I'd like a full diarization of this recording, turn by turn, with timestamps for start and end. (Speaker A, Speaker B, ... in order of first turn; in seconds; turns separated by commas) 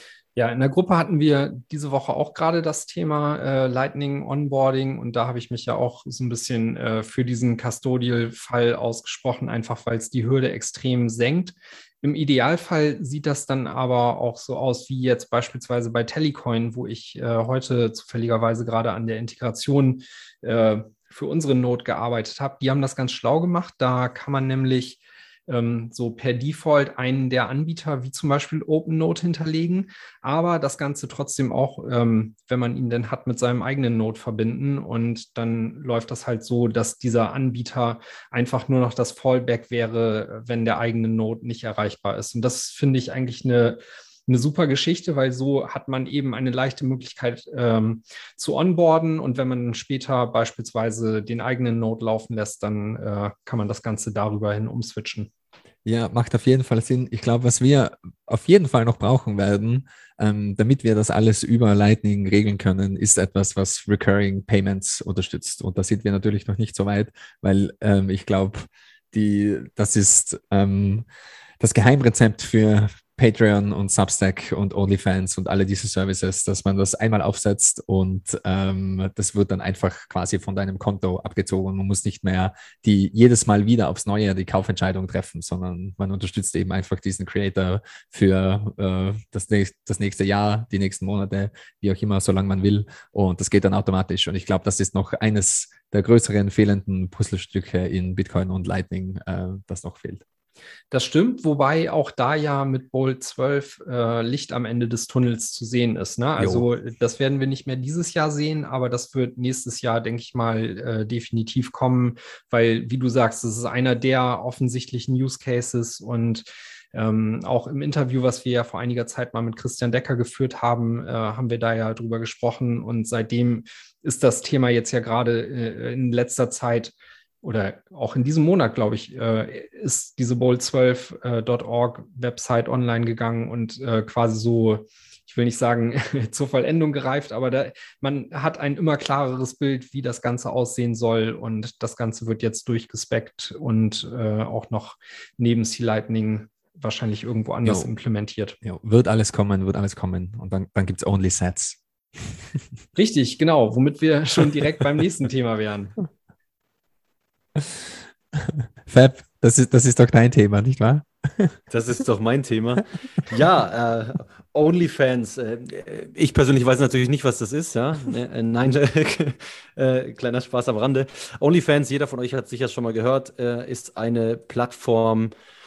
Speaker A: 0.4-55.3, Speaker B: 55.9-71.1, Speaker B: 71.6-100.2, Speaker A: 100.9-148.6, Speaker B: 106.4-106.7, Speaker B: 147.6-147.9, Speaker B: 148.6-151.8, Speaker A: 153.0-155.9, Speaker B: 158.4-161.6, Speaker C: 161.7-175.3